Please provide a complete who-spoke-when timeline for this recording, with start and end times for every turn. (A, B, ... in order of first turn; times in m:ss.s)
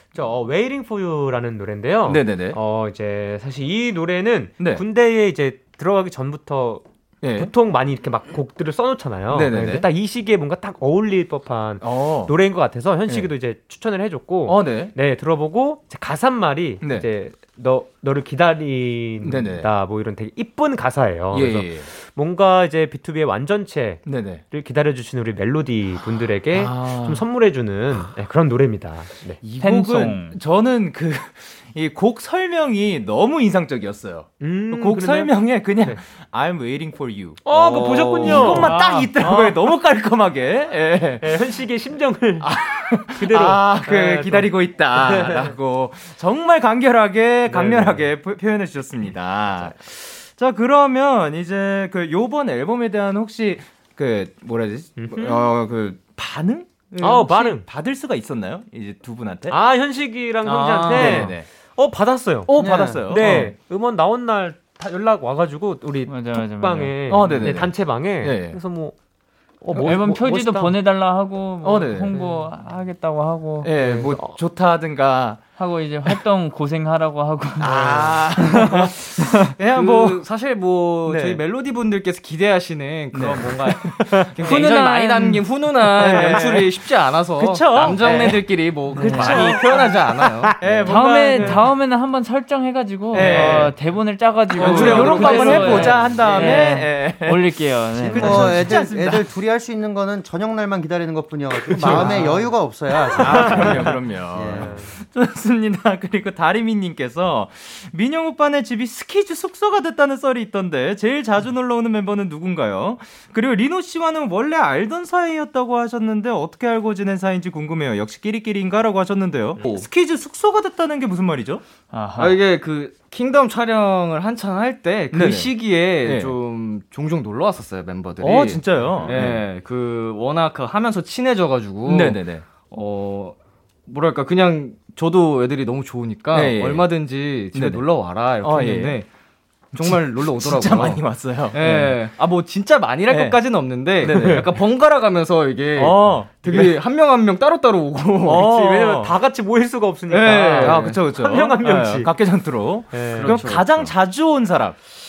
0:00.1-0:29.4 A
0:02.1-0:02.6 B
0:07.2-0:07.5 B
0:09.3-0:09.8 B
0:11.8-0:12.3 B
0:14.5-0:14.9 B
0:19.2-0:19.7 B
0:21.3-0:21.9 B
0:24.0-0:24.4 B
0:26.5-0:27.2 B
0:29.4-0:41.4 B
0:29.6-0:30.4 C
0:34.4-0:36.0 A
0:37.4-0:39.6 A
0:37.5-0:38.2 D
0:38.2-0:39.1 C
0:41.2-0:42.5 A
0:42.4-0:59.6 B
0:43.2-0:45.5 A
0:47.5-0:48.1 A
0:55.0-0:55.5 A
0:57.0-0:57.6 A
0:59.5-1:08.9 A
1:00.4-1:01.4 B
1:00.8-1:01.3 D
1:02.5-1:03.5 B
1:02.5-1:03.3 E
1:06.1-1:07.2 C
1:07.1-1:08.6 B
1:09.6-1:10.7 A
1:09.8-1:13.7 C
1:11.6-1:12.2 B
1:13.6-1:15.4 B
1:13.8-1:14.4 A
1:15.6-1:19.6 C
1:17.6-1:20.2 B
1:19.7-1:30.9 D
1:21.0-1:21.4 B
1:23.1-1:24.7 B
1:24.4-1:25.4 C
1:25.8-1:26.7 B
1:27.4-1:31.7 B
1:29.0-1:29.6 C
1:30.8-1:38.8 C
1:30.9-1:31.5 A
1:33.1-1:33.8 B
1:33.2-1:33.4 D
1:33.2-1:33.7 A
1:34.5-1:37.5 B
1:34.6-1:36.3 D
1:35.0-1:36.7 A
1:38.0-1:44.8 E
1:38.0-1:39.3 B
1:41.7-1:42.4 B
1:42.0-1:42.3 A
1:43.2-2:01.6 B
1:43.3-1:43.9 A
1:44.6-1:44.9 A
2:01.9-2:02.4 C
2:02.2-2:13.4 D
2:05.1-2:06.3 B
2:08.2-2:09.4 B
2:11.9-2:12.4 B
2:13.9-2:19.1 D
2:16.3-2:16.9 B
2:17.5-2:17.8 B
2:18.4-2:19.0 B
2:19.7-2:22.0 B
2:19.7-2:28.8 D
2:23.1-2:23.4 B
2:24.0-2:24.6 B
2:24.0-2:24.4 A
2:25.8-2:26.8 B
2:28.2-2:29.1 B
2:28.5-2:32.1 A
2:30.1-2:31.0 D
2:30.2-2:34.8 B
2:32.9-2:33.4 A
2:33.1-2:33.9 D